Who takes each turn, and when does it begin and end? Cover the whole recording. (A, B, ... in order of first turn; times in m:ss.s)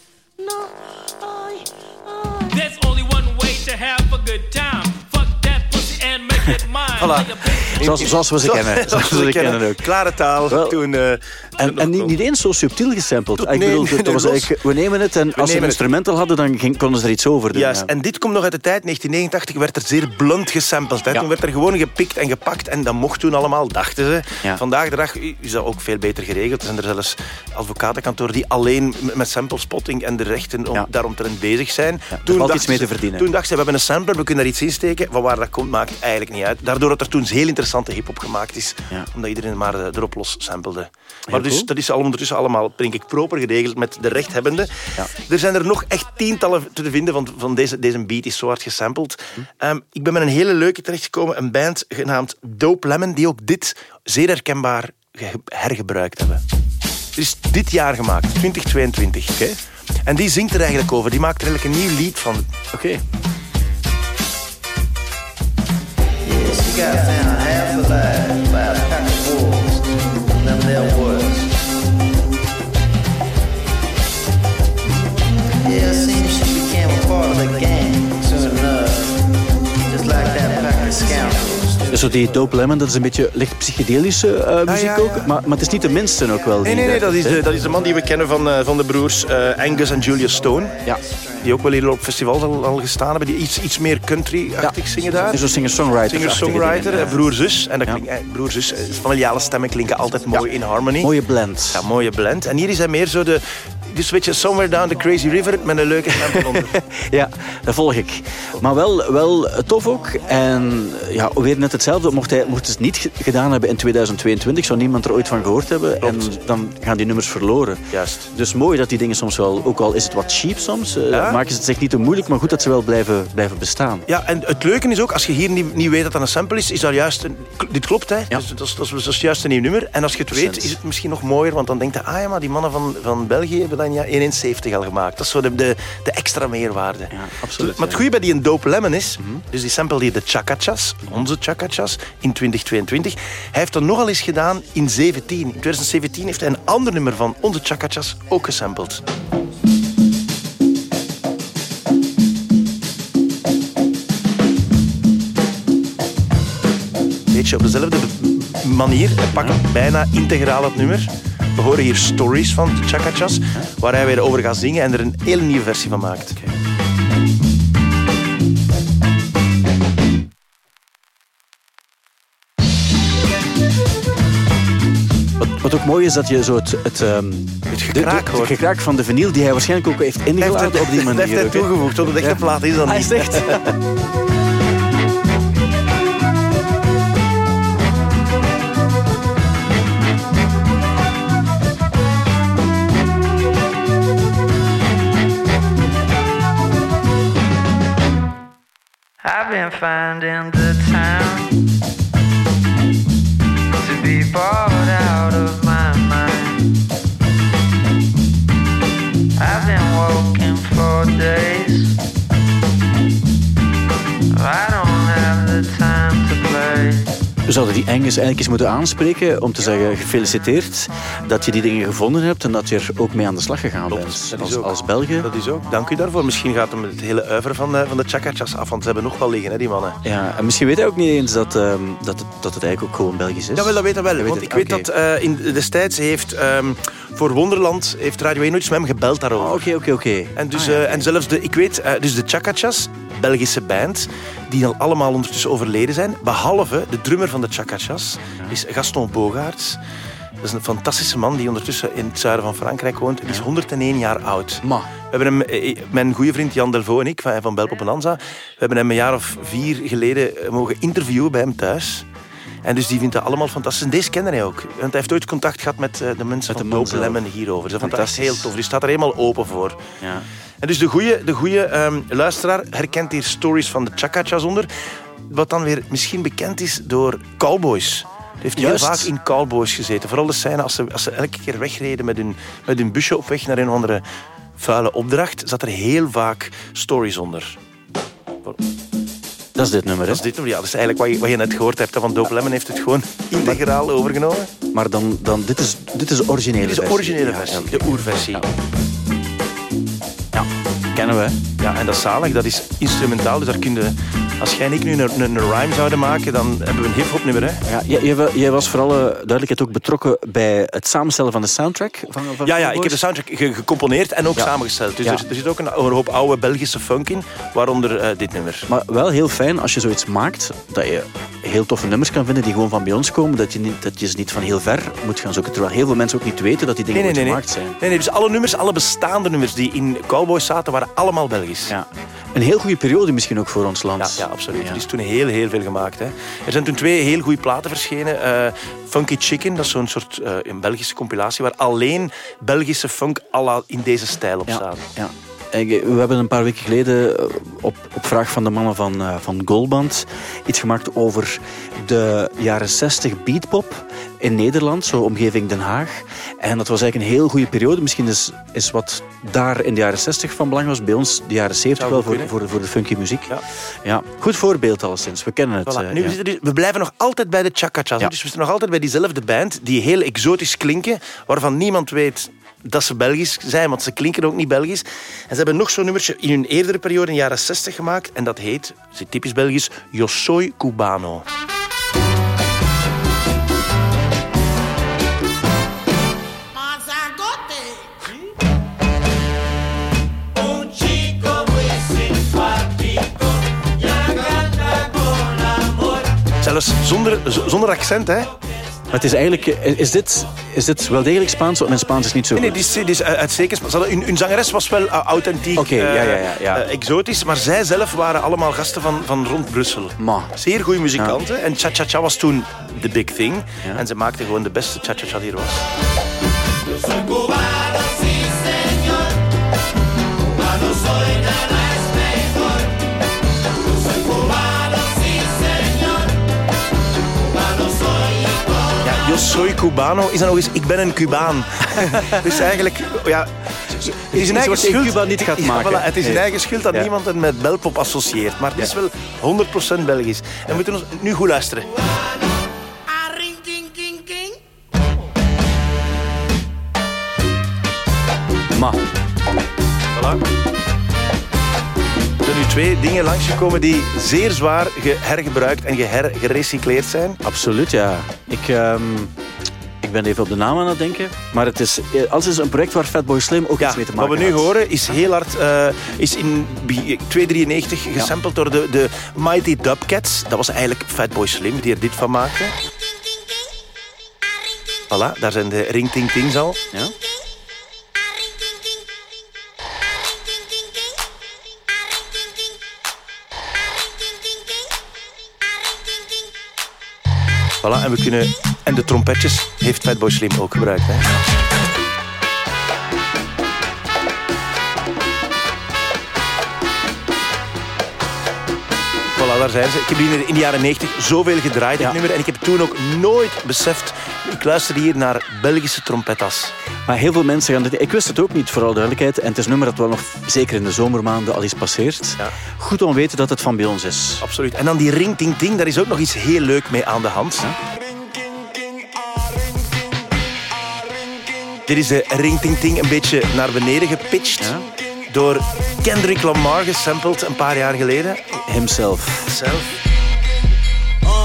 0:00.4-0:02.5 A
0:02.5-0:08.1 B
0:07.0-0:12.2 C
0:07.8-0:09.9 D
0:10.5-0:10.8 D
0:11.6-0:17.9 D
0:13.4-0:14.5 C
0:15.3-0:15.8 C
0:17.5-0:56.4 C
0:32.1-0:33.3 D
0:41.3-0:41.7 D
0:57.2-0:59.4 C
1:00.1-1:02.5 C
1:02.7-1:03.0 D
1:06.2-1:11.5 E
1:15.6-1:19.2 E
1:19.8-1:22.0 E
1:21.9-1:27.4 D
1:24.7-1:25.3 C
1:26.6-1:30.8 C
1:31.4-1:35.4 C
1:34.6-1:37.2 D
1:36.1-1:41.1 C
1:41.0-1:41.8 D
1:41.7-1:46.7 C
1:46.1-2:04.0 D
1:56.0-1:56.4 C
1:57.9-1:58.3 C
2:01.1-2:01.4 C
2:04.1-2:29.0 C
2:10.3-2:10.8 D
2:17.1-2:18.0 D
2:37.3-2:46.4 C
2:39.3-2:39.6 D
2:55.4-3:03.7 D
2:57.7-2:58.6 C
3:00.4-3:03.7 C
3:19.2-3:21.5 F
3:23.7-3:26.6 F
3:29.4-3:31.9 F
3:34.3-3:37.1 F
3:37.5-3:45.3 D
3:43.9-3:50.0 C
3:50.0-3:54.9 D
3:53.6-3:59.7 C
3:59.4-4:01.1 D
4:00.4-4:09.8 C
4:10.4-4:22.1 C
4:14.6-4:14.9 D
4:22.6-4:29.8 C
4:26.5-4:27.2 D
4:27.8-4:28.5 D
4:30.0-4:30.2 D
4:30.6-4:34.7 C
4:35.3-4:44.0 C
4:38.6-4:39.1 D
4:44.6-4:47.6 C
4:49.6-4:50.2 D
4:50.1-4:54.5 C
4:54.7-4:58.5 D
4:56.6-4:58.4 C
5:00.3-5:01.4 D
5:01.6-5:07.6 C
5:07.7-5:13.0 D
5:12.4-5:18.6 C
5:18.7-5:27.8 D
5:26.9-5:31.7 C
5:31.7-5:34.8 D
5:34.0-5:44.9 C
5:44.5-6:06.1 D
6:01.8-6:02.3 C
6:05.7-6:21.2 C
6:36.4-6:38.3 C
6:38.9-6:42.6 D
6:42.4-6:55.6 C
6:45.6-6:46.6 D
6:50.0-6:50.3 D
7:08.8-7:21.7 C
7:11.7-7:12.2 D
7:13.9-7:16.9 D
7:23.6-7:24.2 C
7:28.5-7:28.8 D
7:29.9-7:30.2 C
7:32.2-7:37.2 C
7:37.2-7:39.1 D
7:39.8-7:44.5 D
7:43.6-7:52.5 C
7:54.9-7:56.6 C
8:07.6-8:11.1 C
8:19.1-8:26.5 C
8:26.9-8:34.2 D
8:34.2-8:37.5 C
8:41.7-8:44.5 C
8:45.1-8:48.4 C
8:48.5-8:49.3 D
8:49.3-8:49.8 C